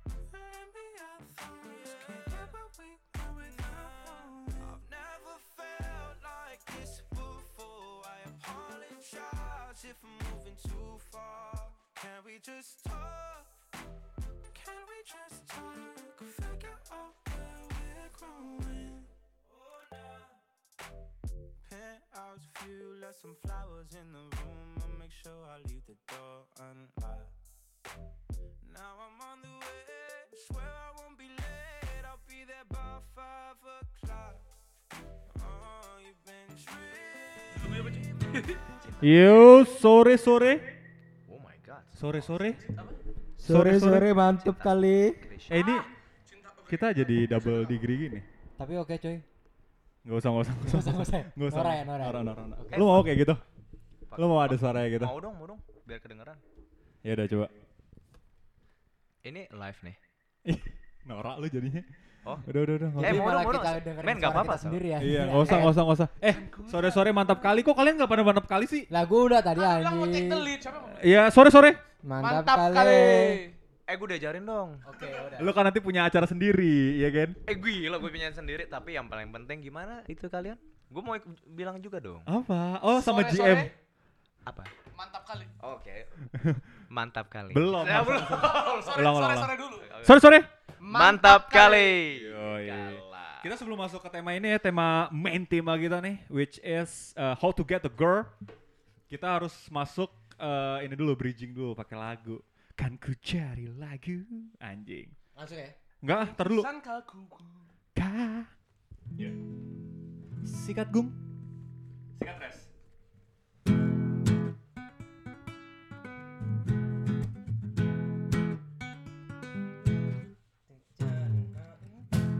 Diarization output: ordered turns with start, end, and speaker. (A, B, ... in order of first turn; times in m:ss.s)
0:00.3-0:13.5 A
0:14.5-0:20.3 A
0:21.6-0:27.3 A
0:28.6-0:34.4 A
0:35.4-0:37.5 A
0:37.5-0:38.7 B
0:39.0-0:40.6 C
0:41.3-0:42.5 D
0:42.0-0:42.6 C
0:42.6-0:43.0 B
0:43.4-0:45.2 E
0:43.4-0:44.2 C
0:44.4-0:45.6 D
0:45.5-0:45.9 C
0:45.5-0:47.8 B
0:46.7-0:48.3 C
0:48.6-0:49.2 E
0:50.0-0:53.4 C
0:50.6-0:53.0 E
0:52.7-0:53.1 D
0:54.1-0:56.4 D
0:54.2-0:55.2 C
0:57.0-0:57.6 C
0:59.2-1:00.0 D
1:00.4-1:01.9 C
1:02.2-1:04.9 D
1:02.4-1:03.3 C
1:03.0-1:05.8 E
1:05.0-1:08.9 C
1:06.2-1:07.4 B
1:08.9-1:10.5 E
1:09.5-1:11.2 B
1:10.9-1:11.8 C
1:12.0-1:13.4 E
1:12.2-1:13.6 B
1:13.9-1:14.8 D
1:14.8-1:15.6 E
1:15.4-1:17.4 C
1:17.4-1:22.3 D
1:22.3-1:23.7 C
1:23.0-1:23.7 B
1:24.4-1:24.7 D
1:24.9-1:25.5 B
1:25.6-1:26.1 D
1:26.4-1:26.6 C
1:26.9-1:29.0 D
1:27.5-1:30.5 C
1:28.3-1:29.9 B
1:29.8-1:30.3 D
1:30.8-1:32.0 B
1:30.9-1:33.5 D
1:32.1-1:38.3 C
1:39.1-1:45.1 C
1:45.4-1:45.8 E
1:46.0-1:46.7 C
1:46.1-1:47.7 B
1:48.0-1:48.5 C
1:50.4-1:51.2 C
1:52.2-1:52.7 C
2:00.7-2:02.0 E